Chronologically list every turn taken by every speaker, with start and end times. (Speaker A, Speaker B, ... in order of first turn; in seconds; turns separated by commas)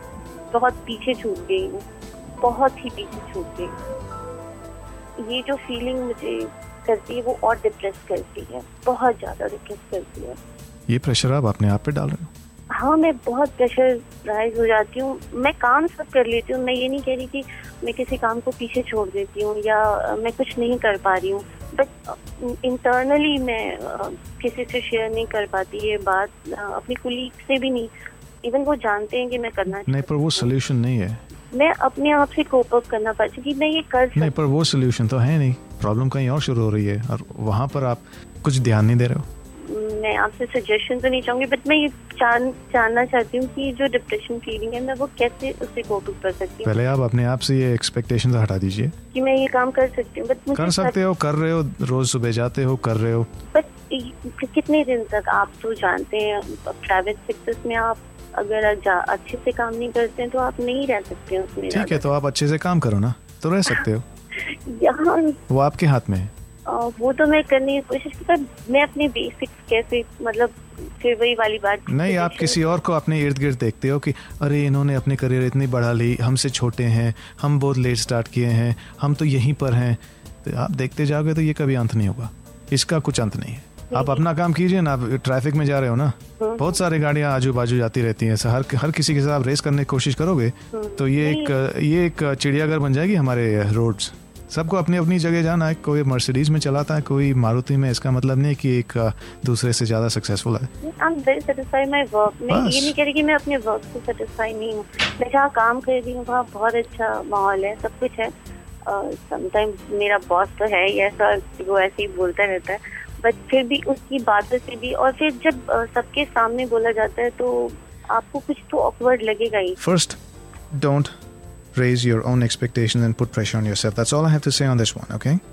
Speaker A: 0.5-1.8, Speaker A: 2.4-3.7, Speaker A: 5.2-10.3, Speaker B: 10.9-12.3, Speaker A: 12.7-27.9, Speaker A: 28.4-30.5, Speaker B: 29.9-31.2, Speaker A: 31.5-34.3, Speaker B: 34.1-39.2, Speaker A: 39.6-46.8, Speaker B: 46.6-48.9, Speaker A: 49.1-51.0, Speaker B: 50.5-53.3, Speaker A: 53.5-62.1, Speaker B: 61.7-64.0, Speaker A: 64.7-65.4, Speaker B: 65.5-66.3, Speaker A: 66.7-72.6, Speaker B: 71.9-100.7, Speaker A: 83.9-84.2, Speaker A: 86.4-86.8, Speaker A: 90.7-91.5, Speaker A: 100.8-108.3, Speaker B: 102.5-102.9, Speaker A: 108.8-119.8, Speaker B: 119.8-120.2, Speaker B: 120.7-121.1, Speaker B: 121.7-125.4